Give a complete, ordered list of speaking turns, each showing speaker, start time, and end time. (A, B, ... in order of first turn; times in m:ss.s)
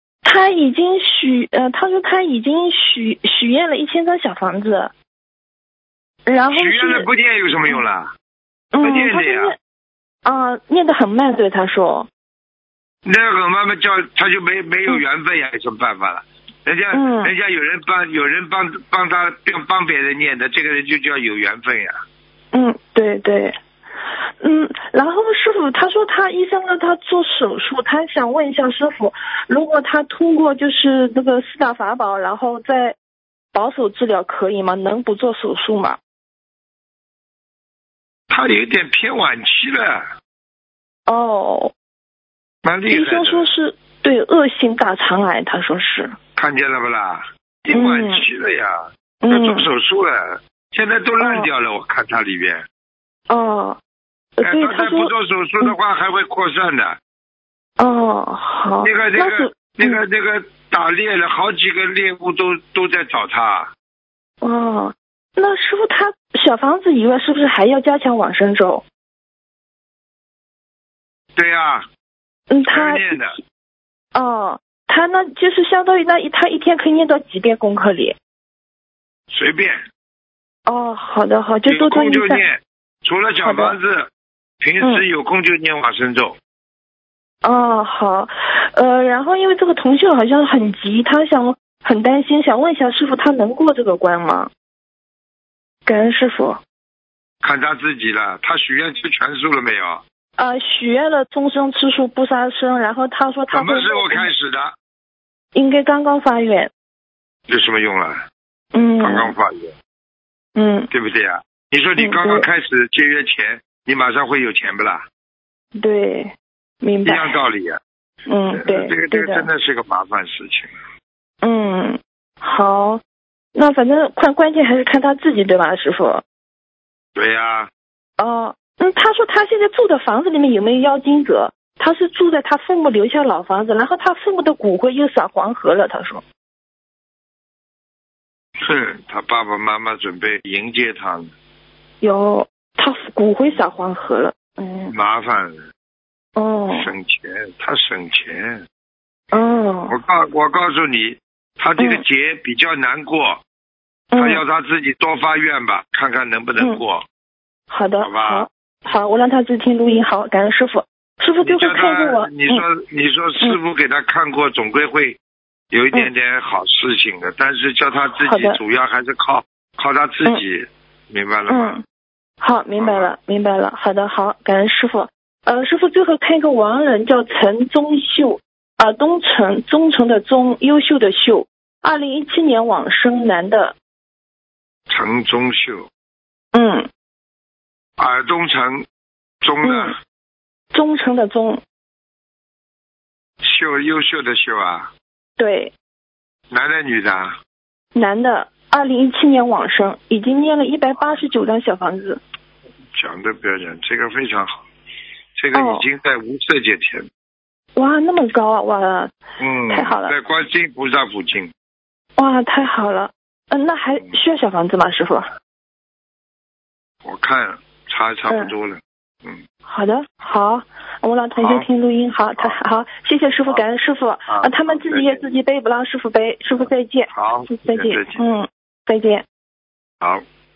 0:00.2-0:04.9 A
0:06.3-0:07.1 A
0:06.5-0:08.1 B
0:08.7-0:09.6 A
0:08.8-0:09.6 B
0:10.2-0:12.1 A
0:13.0-0:22.0 B
0:16.9-0:17.3 A
0:22.5-0:33.0 A
0:33.5-0:36.0 A
0:38.3-0:40.1 B
0:41.1-0:41.7 A
0:42.6-0:43.5 B
0:42.9-0:46.2 A
0:46.4-0:52.7 B
0:47.7-0:48.3 A
0:49.2-0:49.7 A
0:51.2-0:51.5 A
0:53.3-0:53.8 A
0:54.4-0:55.7 A
0:54.4-0:57.0 B
0:57.8-1:00.0 A
0:58.8-1:03.7 B
1:04.4-1:08.8 A
1:11.4-1:11.9 B
1:12.5-1:13.4 A
1:12.7-1:13.4 B
1:14.1-1:18.2 A
1:19.3-1:19.8 B
1:20.7-1:22.4 A
1:21.7-1:24.1 B
1:23.4-1:23.8 A
1:24.6-1:26.4 B
1:27.4-1:34.5 A
1:35.9-1:36.6 A
1:37.4-1:40.0 B
1:40.4-1:44.3 A
1:43.5-1:44.8 B
1:45.5-1:46.7 A
1:47.5-1:48.2 B
1:48.7-1:49.3 A
1:49.0-1:49.7 B
1:50.6-1:50.9 A
1:50.9-1:55.1 B
1:52.0-1:52.5 A
1:55.8-1:57.4 A
1:57.0-1:57.8 B
1:58.3-1:59.5 A
1:58.5-2:00.8 B
2:01.4-2:03.0 A
2:03.6-2:06.2 A
2:07.2-2:07.7 B
2:08.2-2:16.2 A
2:18.6-2:21.3 B
2:22.0-2:25.0 A
2:24.9-2:25.7 B
2:26.4-2:26.9 A
2:26.7-2:28.6 B
2:29.3-2:30.0 A
2:29.9-2:33.4 B
2:31.8-2:32.0 A
2:34.1-2:34.4 A
2:34.2-2:37.0 B
2:37.7-2:42.6 A
2:38.0-2:38.5 B
2:41.4-2:45.2 B
2:45.7-2:51.8 B
2:48.2-2:48.6 A
2:51.5-2:51.8 A
2:52.4-3:03.8 A
2:52.8-2:53.1 B
3:04.9-3:05.9 B
3:06.5-3:06.9 A
3:08.0-3:08.8 B
3:09.4-3:10.0 B
3:09.6-3:10.0 A
3:10.7-3:11.6 A
3:13.4-3:14.9 B
3:15.4-3:15.7 A
3:16.5-3:17.4 B
3:18.0-3:22.2 A
3:22.9-3:24.6 B
3:25.4-3:27.1 B
3:25.5-3:25.9 A
3:27.8-3:29.1 A
3:29.4-3:31.5 B
3:29.7-3:30.1 A
3:32.2-3:35.3 A
3:37.0-3:39.4 B
3:39.6-3:49.2 A
3:41.4-3:41.7 B
3:44.3-3:45.3 B
3:47.1-3:48.2 B